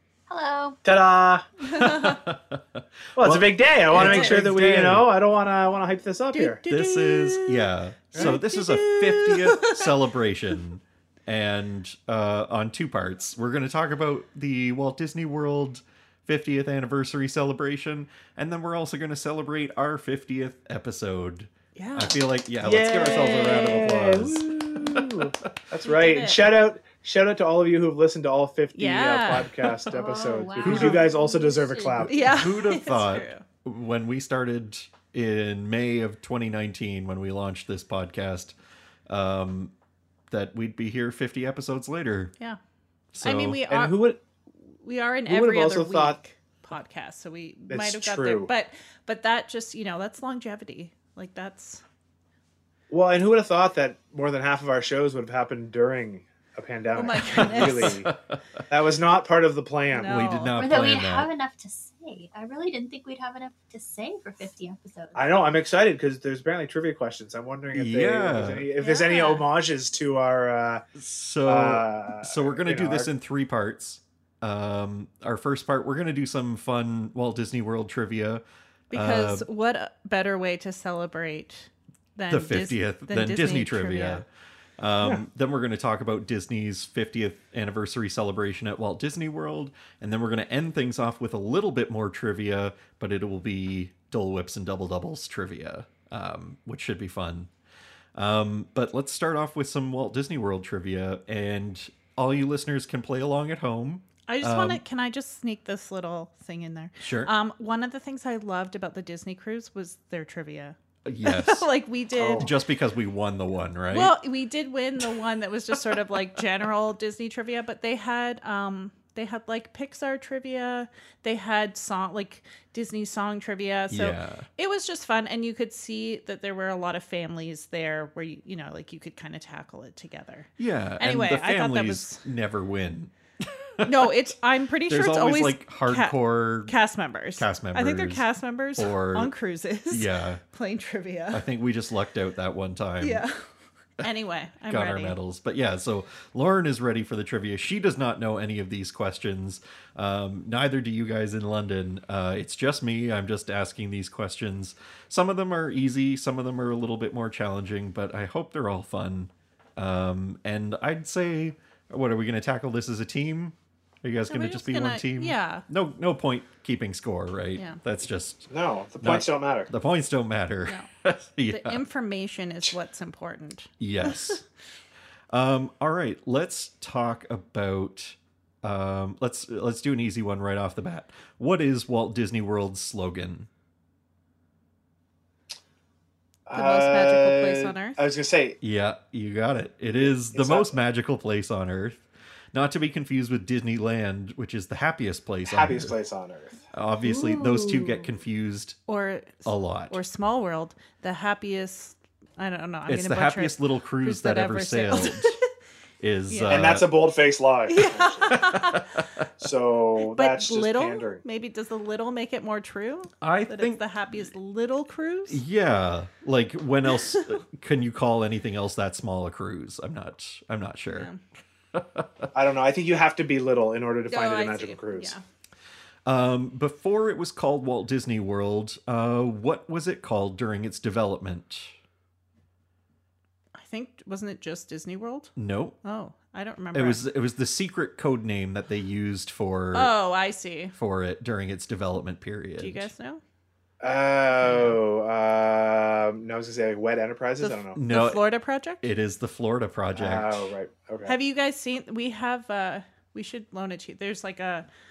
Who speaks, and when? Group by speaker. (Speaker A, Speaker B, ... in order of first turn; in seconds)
Speaker A: 0.3-0.8, 29.9-32.2, 60.5-65.2, 197.0-198.1
Speaker B: 0.8-1.5, 3.2-6.6, 22.6-32.3, 43.7-44.2, 45.3-46.2, 47.7-48.5, 52.9-58.1, 58.7-60.2, 65.2-70.8, 71.5-73.1, 112.2-112.5, 168.5-169.7, 186.5-188.6, 190.0-190.8, 195.5-196.6, 206.5-208.5, 209.4-211.2, 222.3-225.2, 243.8-247.8, 249.9-251.2
Speaker C: 1.6-5.1, 6.7-25.5, 30.6-31.0, 32.2-38.5, 39.1-39.7, 40.3-42.3, 43.1-43.6, 57.2-58.6, 60.0-61.3, 67.7-68.7, 71.0-79.5, 82.3-84.3, 84.8-97.5, 98.2-104.8, 107.0-107.3, 111.0-111.7, 112.4-114.2, 123.9-124.5, 130.6-134.3, 134.9-136.7, 137.4-138.2, 138.8-139.3, 139.9-140.4, 141.3-143.2, 144.7-168.5, 169.0-171.8, 173.8-174.4, 175.3-183.5, 188.6-195.9, 196.7-198.8, 199.4-200.0, 202.9-205.4, 206.0-206.9, 208.3-209.1, 213.2-214.3, 215.3-221.1, 221.7-222.3, 226.1-231.7, 235.4-235.8, 236.7-239.9, 240.7-242.9, 247.7-248.3, 248.8-250.5
Speaker D: 1.7-2.1, 3.9-4.5, 6.3-9.9, 21.8-22.2, 23.4-23.7, 25.8-26.5, 28.8-29.5, 32.1-33.5, 43.2-44.0, 44.7-51.8, 57.0-58.0, 59.9-60.6, 68.8-69.5, 78.9-84.2, 104.3-112.5, 113.9-132.2, 133.8-141.4, 143.0-143.4, 144.0-145.2, 164.3-165.7, 167.6-167.8, 171.5-174.4, 186.5-188.0, 198.9-205.5, 206.3-206.7, 207.7-208.8, 210.0-215.4, 217.0-217.2, 220.9-221.2, 224.1-225.2, 233.6-237.1, 239.7-240.8, 242.6-243.2, 244.4-244.8, 247.4-248.9, 251.1-254.7